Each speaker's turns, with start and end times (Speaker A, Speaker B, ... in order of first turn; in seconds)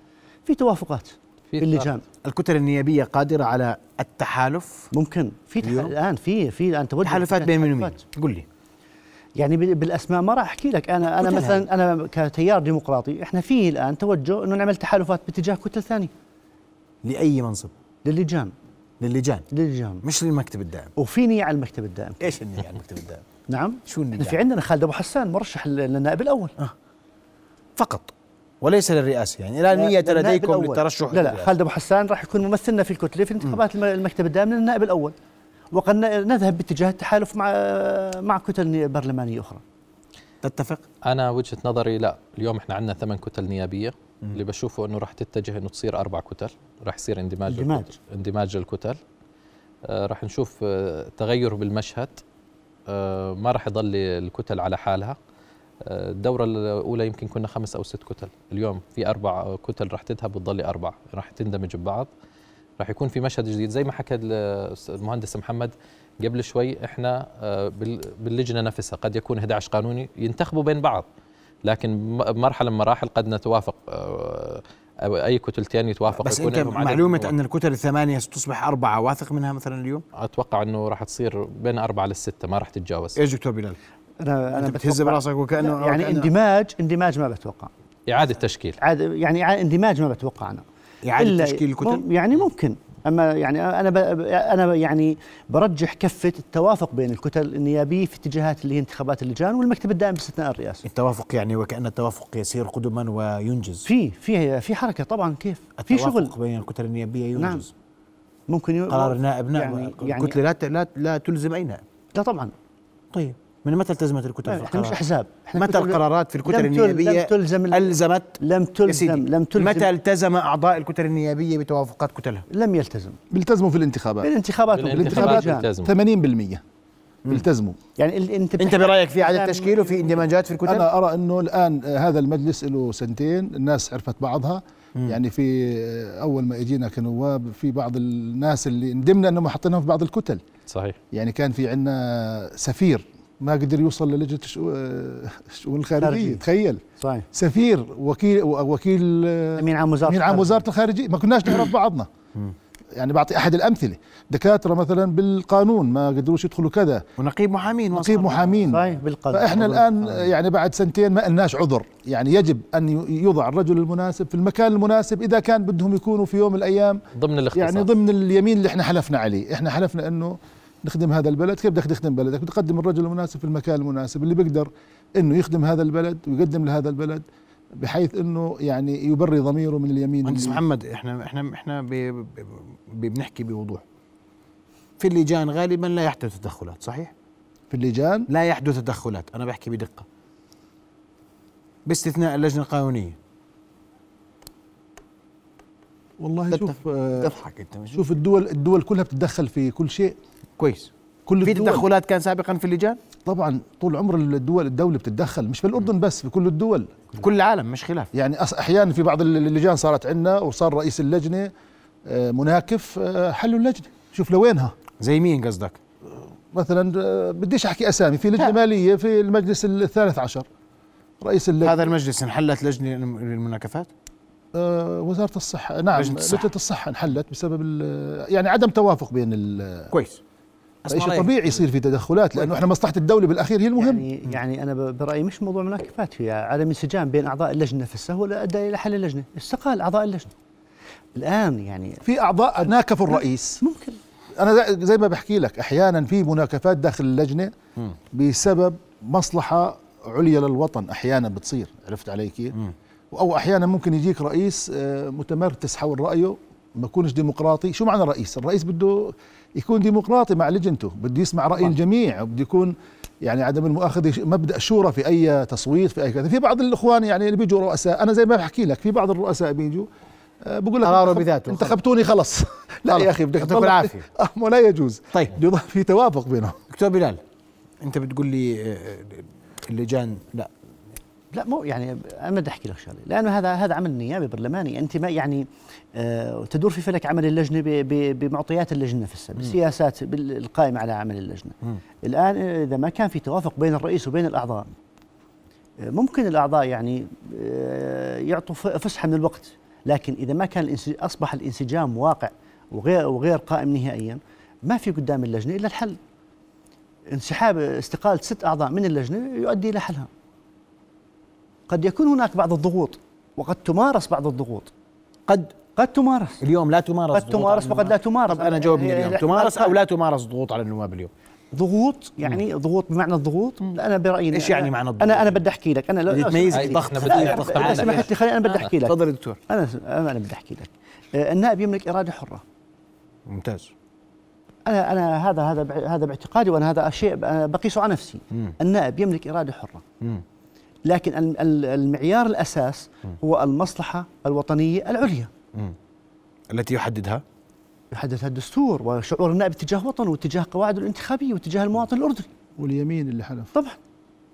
Speaker A: 0.5-2.0, 4.9-8.0, 9.4-16.1, 18.0-18.5, 19.5-20.0, 20.9-22.3, 23.5-26.5, 29.7-35.1, 35.7-39.6, 47.5-47.9, 84.2-87.7, 88.8-90.6, 91.2-100.8, 103.8-106.3, 107.3-107.6, 108.5-110.3, 112.1-112.5, 114.5-119.9, 122.5-123.2, 124.2-125.7, 128.0-130.2, 146.0-146.4, 147.0-147.2, 149.6-150.6, 158.7-160.2, 233.8-240.3, 241.1-242.0, 242.7-244.0, 281.3-294.7, 295.8-306.0, 307.1-310.1, 311.7-314.7, 315.8-316.4, 317.1-319.8, 321.5-332.4, 334.6-339.8, 340.9-345.3, 347.9-352.3
Speaker B: 1.5-1.9, 41.0-49.0, 49.9-52.2, 52.9-55.1, 55.8-62.1, 62.8-71.0, 71.6-77.3, 80.1-83.2, 88.1-88.8, 124.7-125.9, 140.7-141.0, 167.1-167.9, 326.5-328.7
Speaker C: 2.2-4.9, 5.6-5.9, 7.0-8.4, 11.2-11.6, 17.0-17.7, 19.0-19.4, 20.0-20.9, 22.2-23.2, 23.9-24.4, 27.8-31.5, 40.4-40.8, 76.1-80.0, 83.2-83.8, 84.5-86.3, 91.0-92.0, 100.8-103.9, 105.8-107.7, 108.9-111.8, 113.1-115.0, 115.5-122.5, 128.6-130.9, 157.2-158.7, 180.2-183.8, 185.0-187.1, 188.3-190.1, 191.8-193.2, 196.5-198.0, 200.6-200.9, 201.4-203.0, 207.2-208.1, 215.0-215.8, 221.6-223.9, 225.9-226.5, 229.9-230.2, 230.8-231.6, 270.8-271.8, 272.9-274.1, 276.7-277.2, 277.8-280.5, 315.3-315.5, 316.4-321.1, 324.3-325.4, 326.1-329.4, 333.3-333.7, 346.5-347.2
Speaker D: 123.3-124.3, 124.9-126.6, 127.3-127.8, 130.7-140.4, 141.1-146.8, 147.3-152.1, 152.9-157.0, 157.9-167.0, 167.5-177.2, 177.8-180.6, 187.7-188.3, 196.2-197.3, 197.9-200.2, 201.2-201.8, 203.2-207.0, 208.1-211.5, 212.1-214.7, 216.1-220.4, 221.2-221.9, 224.5-229.9, 230.9-234.1, 242.0-243.6, 244.4-247.5, 248.1-252.5, 253.1-269.9, 270.4-276.6, 352.6-353.5